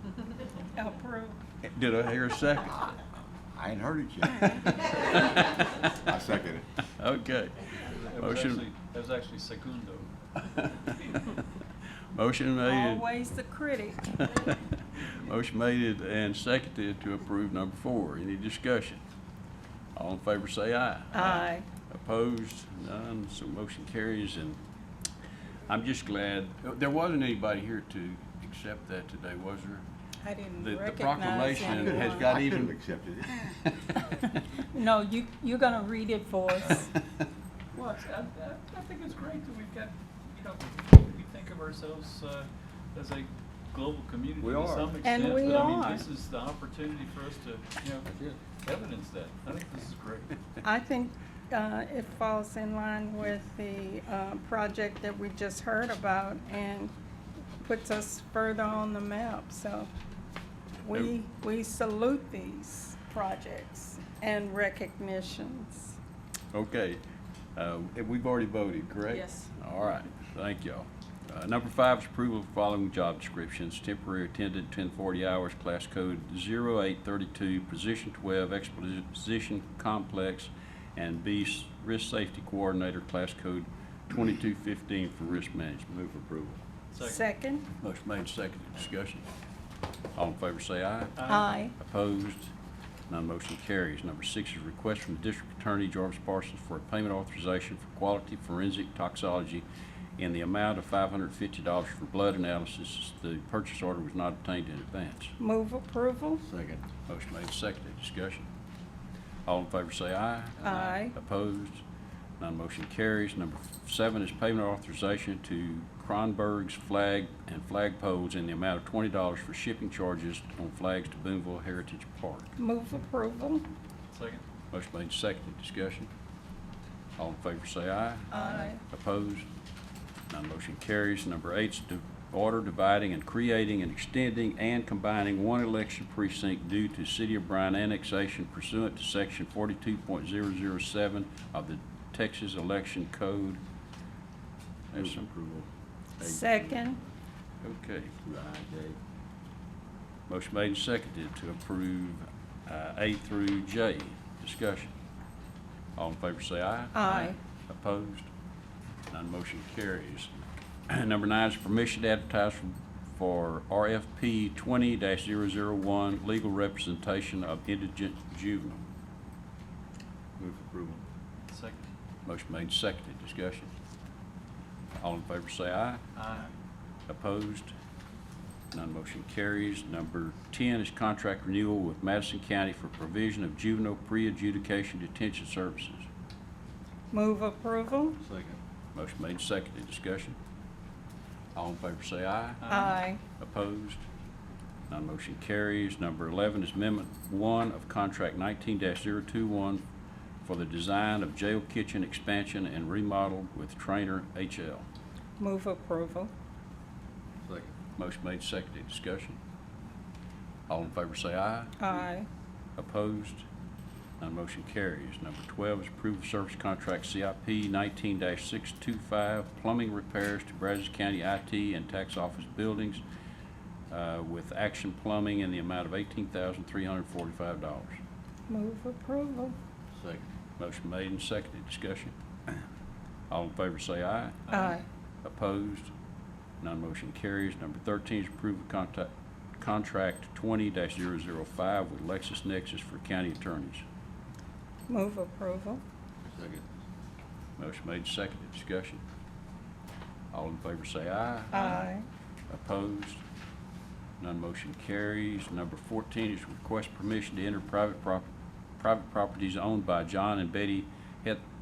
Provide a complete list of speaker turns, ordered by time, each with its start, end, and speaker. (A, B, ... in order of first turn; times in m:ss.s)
0:00.7-0:01.4 A
0:01.6-0:02.9 B
0:03.5-0:04.9 C
0:04.4-0:06.0 B
0:05.9-0:06.6 C
0:06.8-0:08.6 B
0:07.9-0:10.1 D
0:10.4-0:11.4 B
0:12.1-0:13.0 B
0:12.6-0:14.2 A
0:14.1-0:19.0 B
0:19.9-0:24.6 B
0:21.1-0:21.6 A
0:25.7-0:29.8 B
0:30.2-0:32.4 A
0:30.6-0:32.7 B
0:31.6-0:33.3 C
0:33.4-0:34.3 B
0:34.7-0:36.9 A
0:37.7-0:48.1 D
0:44.4-0:45.4 C
0:45.0-0:46.0 A
0:48.0-0:48.4 C
0:48.6-0:50.4 D
0:50.6-0:56.9 A
0:57.6-0:59.9 A
1:00.8-1:06.0 A
1:06.5-1:07.0 B
1:07.6-1:26.6 B
1:09.1-1:09.5 A
1:26.9-1:27.2 D
1:27.0-1:27.7 A
1:27.8-1:29.2 B
1:30.1-1:31.2 B
1:31.2-1:31.5 D
1:31.3-1:31.7 A
1:31.7-1:32.5 B
1:33.1-1:39.6 B
1:40.2-1:45.4 B
1:45.4-1:46.4 A
1:46.5-1:46.8 C
1:47.1-1:48.5 B
1:49.4-1:51.8 B
1:50.6-1:51.1 A
1:52.4-2:02.5 B
2:02.6-2:03.7 A
2:04.1-2:04.4 D
2:04.7-2:06.1 B
2:07.2-2:09.5 B
2:08.3-2:08.8 A
2:10.3-2:23.6 B
2:24.9-2:25.3 B
2:24.9-2:26.7 C
2:26.2-2:27.0 A
2:27.6-2:28.2 B
2:28.2-2:29.0 C
2:30.3-2:34.9 B
2:36.0-2:38.3 B
2:36.9-2:37.4 A
2:39.1-2:40.3 B
2:40.9-2:48.8 B
2:50.4-2:51.0 C
2:51.5-2:51.9 D
2:52.2-2:53.7 B
2:55.0-2:56.0 B
2:56.2-2:56.5 D
2:57.1-2:57.7 B
2:58.7-3:06.1 B
3:07.1-3:08.2 A
3:08.2-3:08.6 C
3:08.9-3:10.4 B
3:11.5-3:14.0 B
3:12.6-3:13.0 D
3:12.7-3:13.2 A
3:14.9-3:19.8 B
3:20.4-3:24.8 B
3:25.4-3:26.3 A
3:27.4-3:27.7 C
3:28.0-3:29.4 B
3:30.7-3:32.0 B
3:31.8-3:32.3 A
3:32.8-3:33.4 B
3:34.2-3:43.0 B
3:43.9-3:48.0 B
3:48.5-3:49.6 A
3:49.9-3:50.3 C
3:50.6-3:52.1 B
3:53.3-3:54.5 B
3:54.5-3:54.8 D
3:54.5-3:54.8 A
3:55.2-3:55.9 B
3:56.6-4:03.8 B
4:04.9-4:05.8 A
4:06.2-4:06.6 C
4:07.6-4:09.0 B
4:10.3-4:11.8 B
4:11.5-4:12.0 A
4:12.5-4:13.2 B
4:14.2-4:21.4 B